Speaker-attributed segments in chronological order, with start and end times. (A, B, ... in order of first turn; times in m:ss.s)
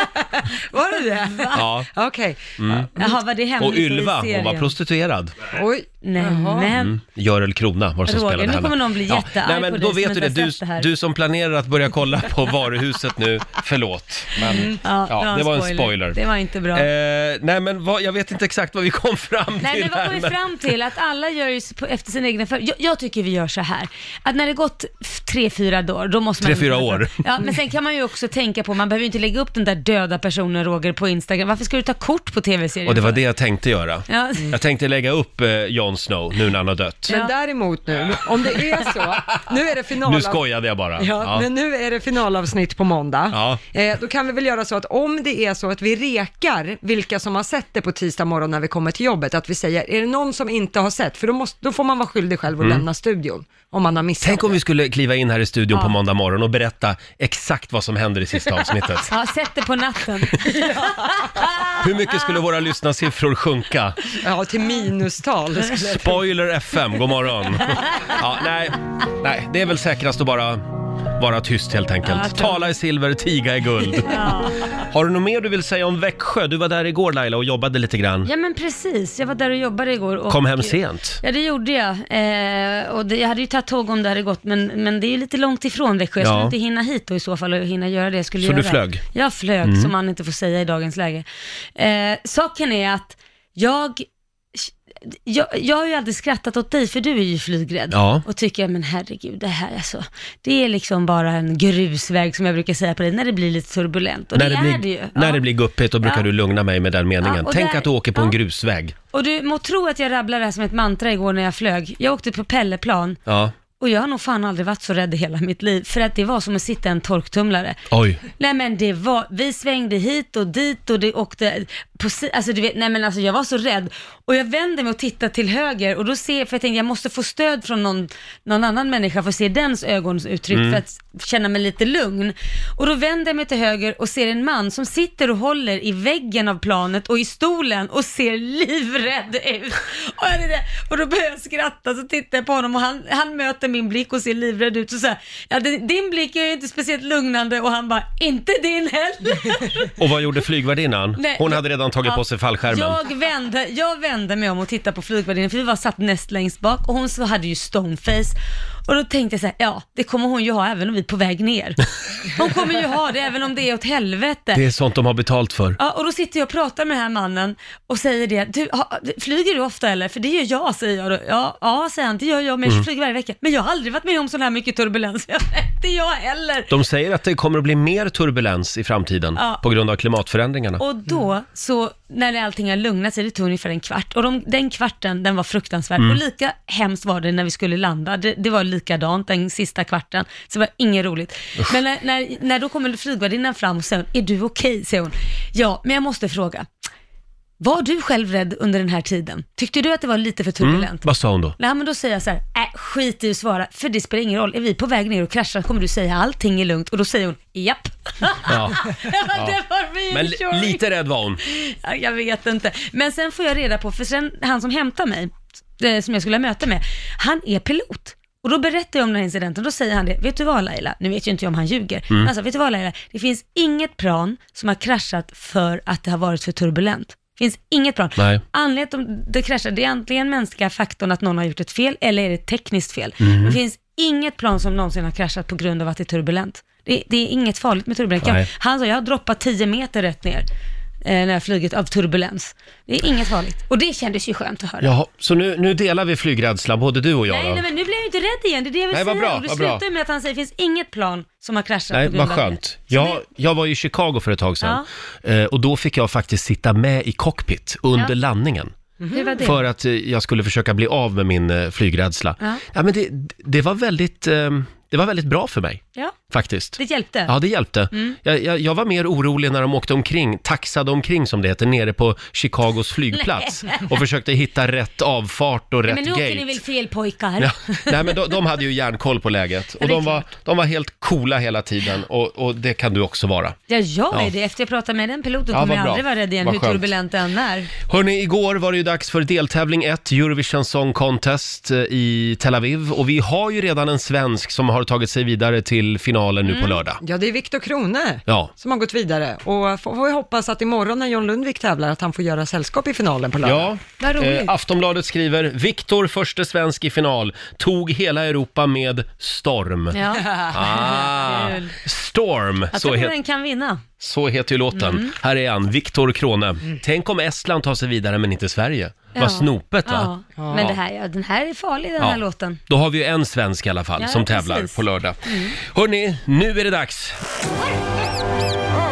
0:00.2-0:03.1 A
0:01.1-0:01.6 B
0:01.5-0:01.9 C
0:02.6-0:02.9 C
0:03.0-0:04.7 B
0:03.6-0:05.3 C
0:05.5-0:06.7 A
0:06.0-0:07.0 B
0:06.8-0:16.2 C
0:08.1-0:10.9 B
0:14.4-0:16.9 B
0:14.4-0:14.8 A
0:16.7-0:20.4 C
0:19.6-0:33.2 B
0:26.4-0:27.2 C
0:32.8-0:37.1 C
0:34.1-0:34.5 B
0:37.1-0:40.4 A
0:40.0-0:41.4 C
0:41.0-0:54.6 A
0:43.3-0:43.6 C
0:52.6-0:52.8 C
0:54.2-0:59.1 C
0:59.1-1:01.8 B
1:01.8-1:04.0 C
1:04.2-1:06.2 A
1:05.9-1:10.6 C
1:07.8-1:08.1 B
1:11.2-1:14.2 C
1:12.0-1:12.6 B
1:14.0-1:14.7 B
1:14.7-1:18.3 C
1:18.2-1:31.2 B
1:20.3-1:21.2 C
1:26.2-1:26.5 C
1:28.4-1:29.0 C
1:29.6-1:29.9 C
1:31.8-1:45.4 B
1:37.9-1:38.2 C
1:44.3-1:48.9 C
1:46.0-1:46.3 B
1:47.2-1:48.4 B
1:49.1-1:53.2 B
1:53.2-1:53.5 C
1:53.8-1:57.8 B
1:57.9-1:58.2 C
1:58.4-2:29.9 B
2:10.5-2:10.8 C
2:30.0-2:33.0 C
2:31.2-2:38.4 B
2:38.9-2:44.6 B
2:44.5-2:45.8 C
2:45.8-2:56.7 B
2:56.7-3:00.8 C
2:59.4-2:59.6 B
3:00.8-3:16.7 B
3:17.6-3:21.1 B
3:20.6-3:21.6 C
3:21.6-3:30.8 B
3:28.4-3:28.8 C
3:30.1-3:31.4 C
3:31.4-4:00.5 B
3:48.2-3:48.4 C
3:53.2-3:53.6 C
3:58.2-3:58.5 C
4:01.0-4:04.9 B
4:04.8-4:07.6 C
4:07.3-4:13.2 B
4:08.9-4:09.8 C
4:11.9-4:18.7 C
4:19.0-4:19.4 A
4:19.1-4:19.6 B
4:19.4-4:36.6 C
4:26.8-4:27.3 B
4:33.1-4:33.9 B
4:35.9-4:38.1 B
4:37.4-4:43.6 C
4:39.8-4:40.2 B
4:43.7-4:47.7 B
4:45.5-4:46.9 C
4:47.9-4:57.0 C
4:56.4-4:56.8 B
4:57.0-5:03.7 A
4:58.3-4:58.5 C
5:03.4-5:13.1 C
5:04.0-5:04.5 B
5:09.9-5:11.8 B
5:12.7-5:13.8 B
5:14.0-5:20.8 C
5:14.7-5:15.1 B
5:19.1-5:22.6 B
5:20.4-5:20.6 A
5:22.0-5:27.2 C
5:24.0-5:25.5 B